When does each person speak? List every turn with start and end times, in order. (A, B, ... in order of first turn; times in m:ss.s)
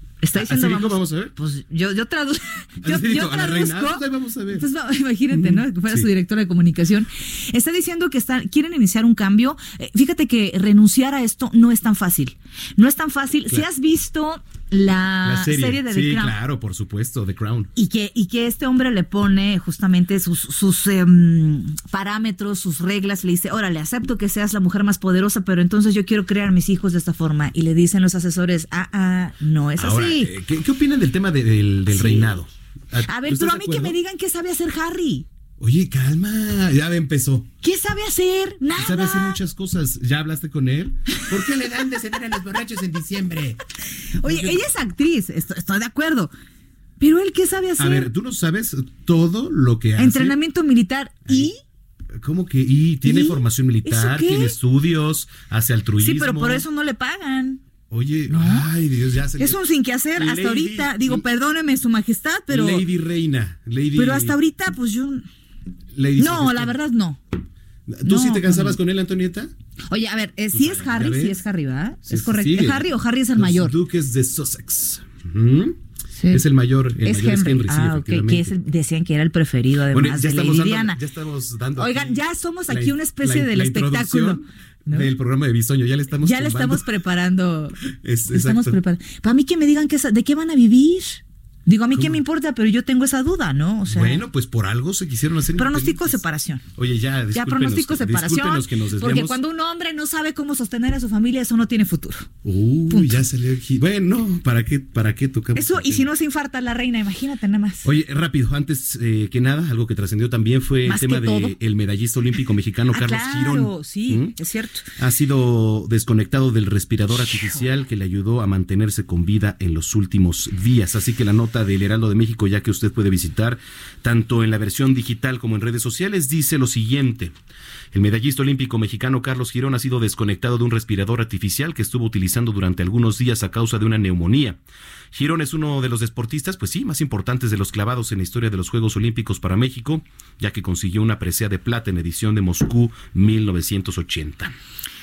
0:00.2-0:16.4 A
0:00.4-0:01.3 B
0:02.8-0:04.7 B
0:05.3-0:06.1 B
0:15.2-0:17.7 B
0:17.8-0:30.3 A
0:29.8-0:34.0 B
0:31.9-0:32.4 A
0:33.1-0:35.3 A
0:35.6-0:37.5 B
0:37.6-0:39.4 A
0:38.8-0:43.6 B
0:44.2-0:44.6 B
0:44.2-0:46.3 A
0:47.0-0:48.1 A
0:47.8-0:50.4 B
0:50.0-0:51.6 A
0:52.2-0:56.6 B
0:53.0-0:54.6 A
0:56.0-0:57.6 A
0:57.9-0:59.6 B
0:58.3-0:58.7 A
0:59.4-1:02.9 A
1:00.2-1:01.2 B
1:02.5-1:04.4 B
1:04.0-1:05.3 A
1:05.9-1:06.8 B
1:06.2-1:07.2 A
1:07.9-1:09.5 B
1:08.0-1:08.8 A
1:09.9-1:13.8 A
1:10.5-1:11.4 B
1:12.1-1:15.8 B
1:16.2-1:16.4 A
1:16.3-1:18.6 B
1:17.0-1:21.0 A
1:19.9-1:26.9 B
1:21.8-1:25.1 A
1:26.2-1:27.8 A
1:28.0-1:28.8 B
1:28.3-1:34.2 A
1:32.0-1:32.2 B
1:33.9-1:36.2 B
1:35.6-1:36.6 A
1:36.8-1:39.4 B
1:37.3-1:42.3 A
1:42.4-1:46.1 B
1:42.9-1:43.2 A
1:45.6-1:47.9 A
1:47.8-1:54.3 B
1:50.9-1:51.6 A
1:52.9-1:54.9 A
1:55.0-2:07.3 B
2:07.9-2:14.6 B
2:15.1-2:24.5 B